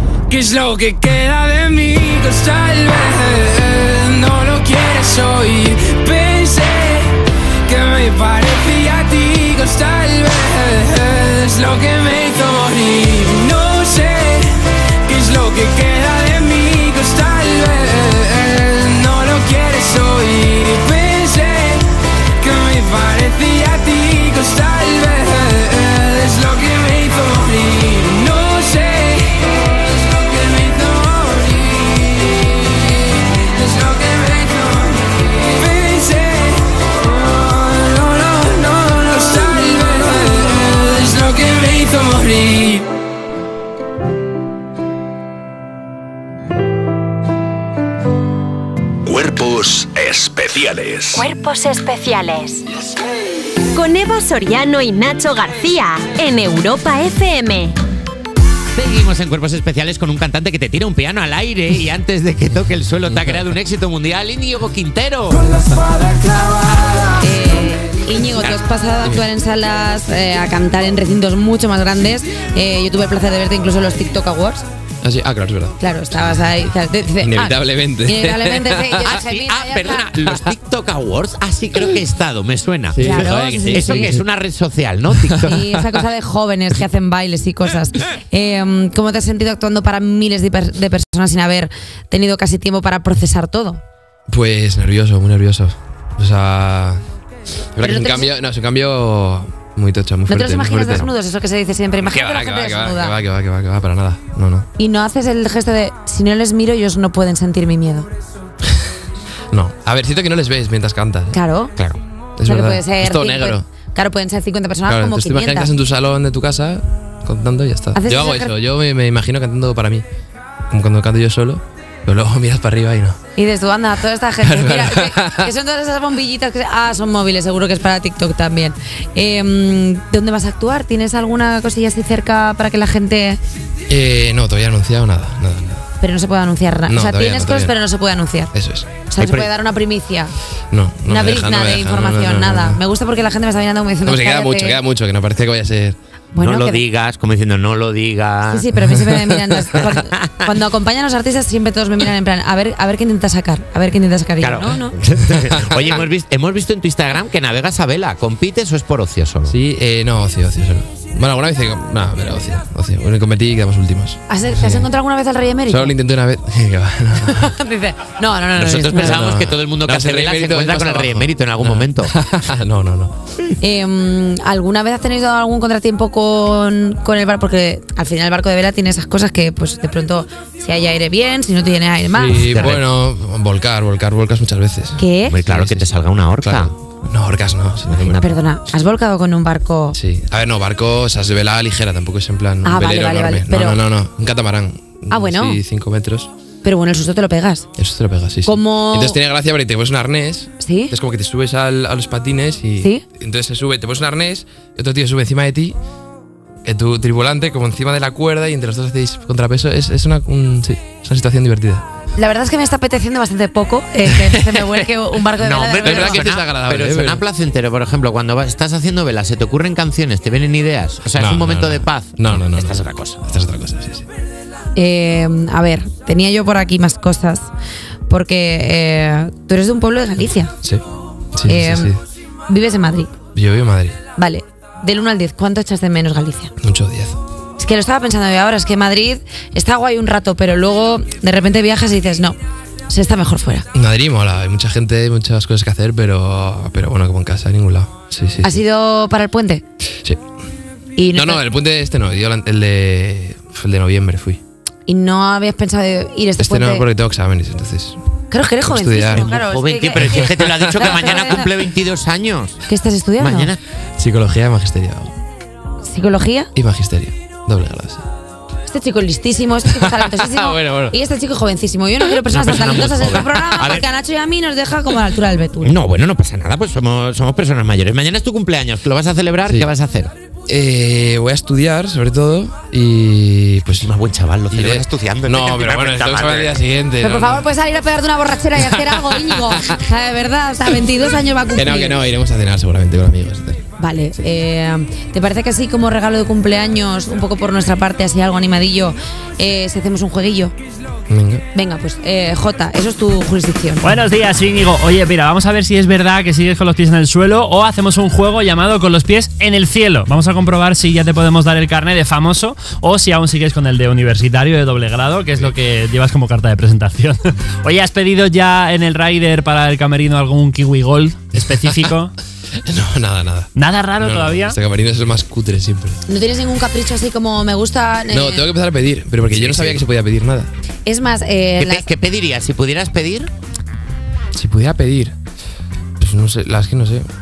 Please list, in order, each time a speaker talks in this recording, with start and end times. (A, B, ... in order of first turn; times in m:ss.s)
0:00.3-0:42.9 A
0:49.0-0:51.2 B
0:51.1-0:52.6 C
0:53.7-0:57.8 C
0:58.7-1:05.7 D
1:07.1-1:14.6 E
1:15.0-1:16.5 F
1:15.8-1:20.1 E
1:17.2-1:19.1 F
1:19.0-1:25.6 D
1:22.9-1:24.2 F
1:23.0-1:24.2 E
1:25.2-1:25.5 F
1:25.4-1:33.8 E
1:34.3-1:37.0 F
1:37.7-1:41.1 F
1:37.8-1:38.3 E
1:40.3-1:43.2 E
1:42.0-1:44.7 F
1:44.8-1:48.1 E
1:49.5-1:51.4 F
1:51.3-1:51.8 E
1:52.4-1:53.6 F
1:52.4-1:55.7 E
1:54.9-2:00.0 F
1:57.9-1:58.5 E
2:00.7-2:03.2 F
2:03.4-2:13.4 E
2:04.4-2:05.5 F
2:13.9-2:15.8 F
2:16.0-2:18.5 E
2:16.9-2:17.7 F
2:18.5-2:19.5 F
2:19.1-2:20.3 E
2:20.7-2:22.8 F
2:21.0-2:24.8 E
2:24.0-2:26.0 F
2:26.3-2:26.8 E
2:26.4-2:28.7 D
2:28.5-2:34.9 E
2:29.0-2:29.4 F
2:29.8-2:30.3 D
2:34.4-2:39.5 D
2:35.3-2:35.7 F
2:39.5-2:44.9 F
2:44.3-2:45.9 E
2:45.7-2:47.5 F
2:47.2-2:49.2 E
2:48.6-2:52.1 D
2:48.9-2:53.1 F
2:53.6-3:02.6 E
3:02.1-3:08.2 F
3:02.5-3:02.8 D
3:05.0-3:05.4 E
3:05.3-3:06.7 D
3:07.9-3:08.2 D
3:08.2-3:10.0 E
3:09.9-3:16.3 F
3:12.6-3:13.8 E
3:15.1-3:15.6 E
3:16.6-3:17.7 E
3:17.8-3:25.8 F
3:18.4-3:19.2 E
3:20.6-3:20.9 E
3:26.6-3:31.8 F
3:32.2-3:36.2 E
3:34.2-3:34.6 F
3:35.4-3:43.2 D
3:35.8-3:37.2 F
3:41.1-3:44.0 F
3:44.7-3:47.5 E
3:48.1-3:50.5 E
3:51.4-3:52.0 F
3:51.4-3:51.9 E
3:52.5-3:53.1 E
3:53.3-3:54.0 F
3:54.1-3:56.5 E
3:56.6-3:57.2 F
3:57.6-4:02.4 E
4:02.9-4:03.6 E
4:03.7-4:08.6 F
4:08.4-4:09.6 E
4:11.0-4:11.4 E
4:11.1-4:14.4 F
4:14.8-4:16.9 E
4:16.4-4:18.0 F
4:18.3-4:21.5 E
4:18.6-4:19.3 F
4:19.1-4:22.6 D
4:20.1-4:21.2 F
4:22.7-4:23.5 E
4:23.2-4:23.6 D
4:24.0-4:25.1 F
4:25.8-4:26.5 E
4:26.5-4:28.0 F
4:28.7-4:35.7 E
4:29.7-4:31.0 F
4:32.3-4:33.8 D
4:35.6-4:40.1 D
4:40.5-4:43.9 F
4:43.8-4:46.6 D
4:44.5-4:47.5 F
4:47.0-4:52.0 E
4:49.4-4:49.7 F
4:51.5-4:53.6 F
4:53.8-5:00.5 E
5:01.1-5:01.4 F
5:01.5-5:03.9 E
5:03.8-5:22.1 G
5:22.6-5:26.0 F
5:23.5-5:24.6 G
5:26.1-5:28.4 E
5:28.1-5:30.5 F
5:29.3-5:29.8 D
5:30.8-5:31.8 E
5:31.6-5:33.3 D
5:34.3-5:35.1 F
5:36.0-5:37.1 F